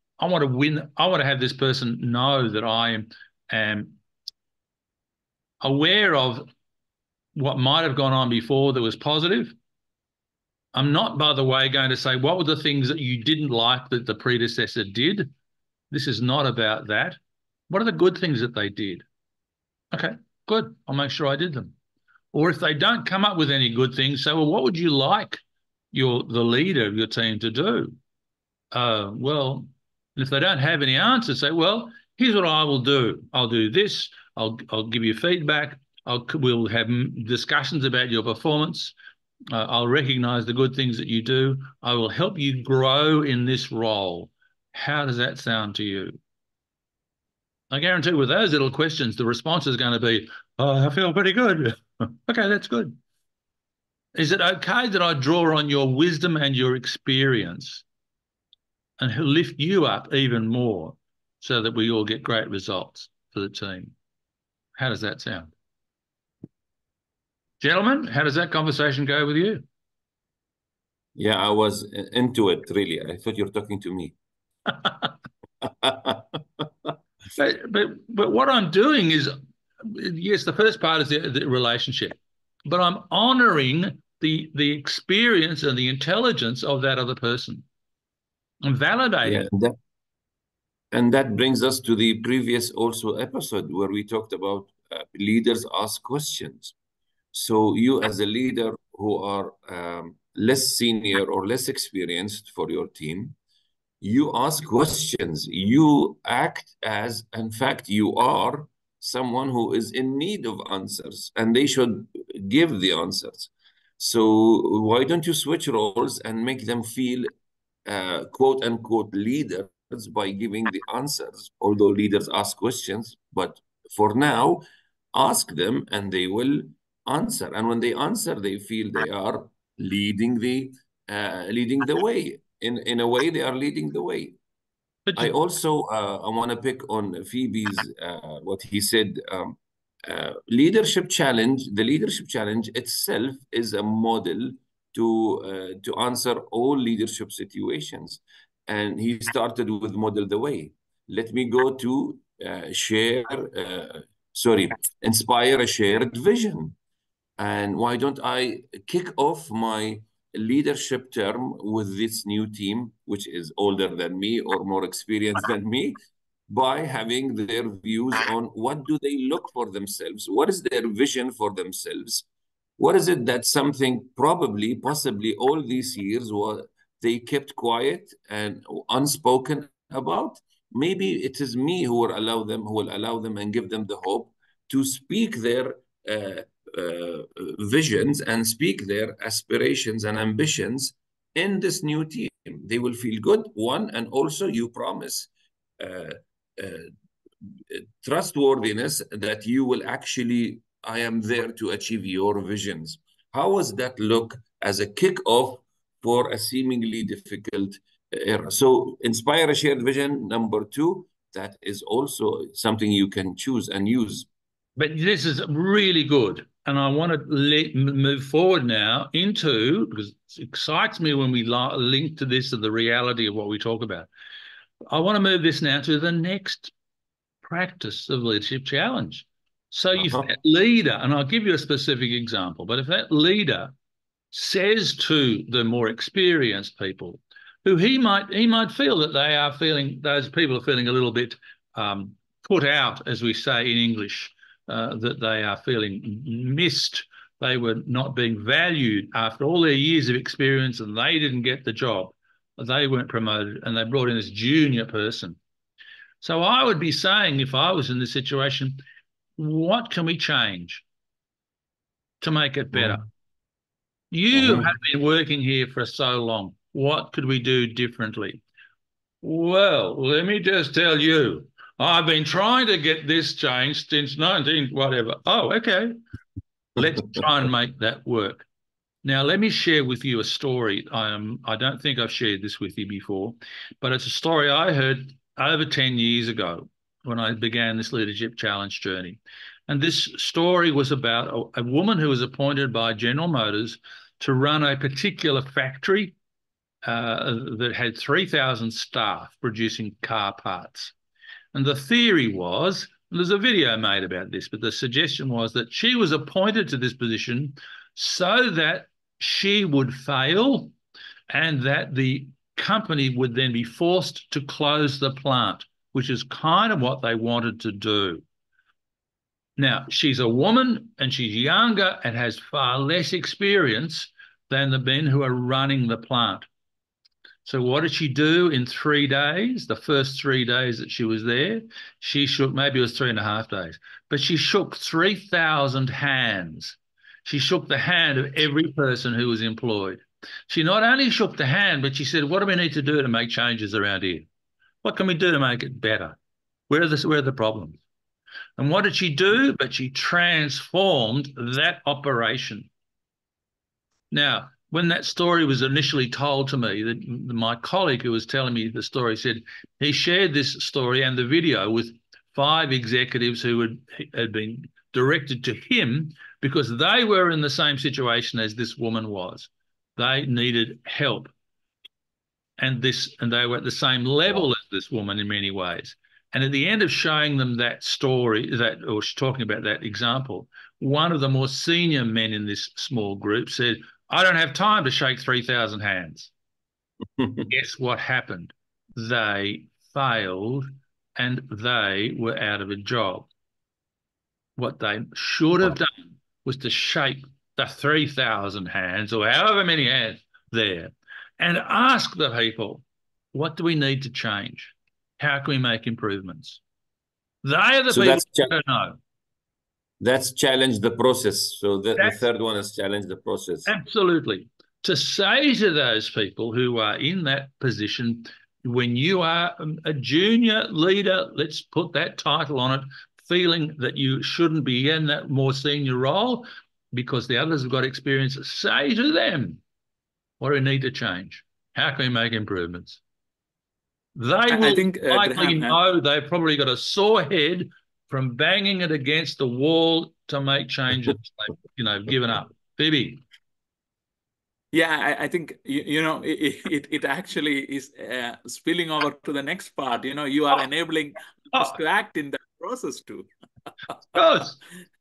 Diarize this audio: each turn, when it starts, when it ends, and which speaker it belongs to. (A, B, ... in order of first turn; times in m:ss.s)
0:00.2-0:04.0 A
0:05.6-0:06.5 A
0:07.4-0:09.5 A
0:10.7-0:15.3 A
0:15.9-0:19.0 A
0:19.9-0:21.8 A
0:22.3-0:25.4 A
0:25.9-0:28.0 A
0:28.7-0:39.0 A
0:39.5-0:46.2 A
0:47.7-0:53.0 A
0:54.2-0:57.8 A
0:59.0-1:03.9 A
1:04.8-1:05.5 A
1:07.6-1:09.6 A
1:11.2-1:14.2 B
1:15.6-1:16.9 B
1:17.4-1:27.7 A
1:28.6-1:29.5 A
1:29.2-1:29.8 B
1:30.9-1:36.8 B
1:37.3-1:43.4 B
1:44.0-1:57.3 B
1:57.9-2:14.4 B
2:15.1-2:15.3 A
2:15.2-2:36.8 B
2:37.4-2:52.3 B
2:52.8-3:16.9 B
3:17.7-3:34.3 B
3:34.8-3:44.1 A
3:44.9-3:46.7 A
3:47.4-3:53.7 A
3:50.0-3:50.3 B
3:54.3-4:15.4 A
4:16.2-4:18.8 A
4:19.4-4:20.8 A
4:22.2-4:23.0 A
4:22.7-4:23.0 B
4:24.1-4:28.4 A
4:24.3-4:24.7 B
4:29.2-4:36.0 A
4:36.8-4:38.5 A
4:39.0-4:56.2 A
4:56.8-5:00.9 A
5:01.5-5:10.7 A
5:11.3-5:18.2 A
5:19.6-5:26.5 A
5:27.4-5:44.3 A
5:44.8-5:46.2 A
5:46.7-5:47.8 A
5:48.6-5:52.7 A
5:54.1-6:11.3 A
6:12.6-6:26.3 A
6:27.5-6:33.3 A
6:34.6-6:46.6 A
6:47.4-6:49.0 A
6:47.9-6:48.5 B
6:50.0-6:53.7 B
6:53.7-7:09.6 A
7:10.4-7:13.0 A
7:14.2-7:23.2 A
7:14.5-7:15.8 C
7:24.7-7:33.3 C
7:34.1-7:34.6 A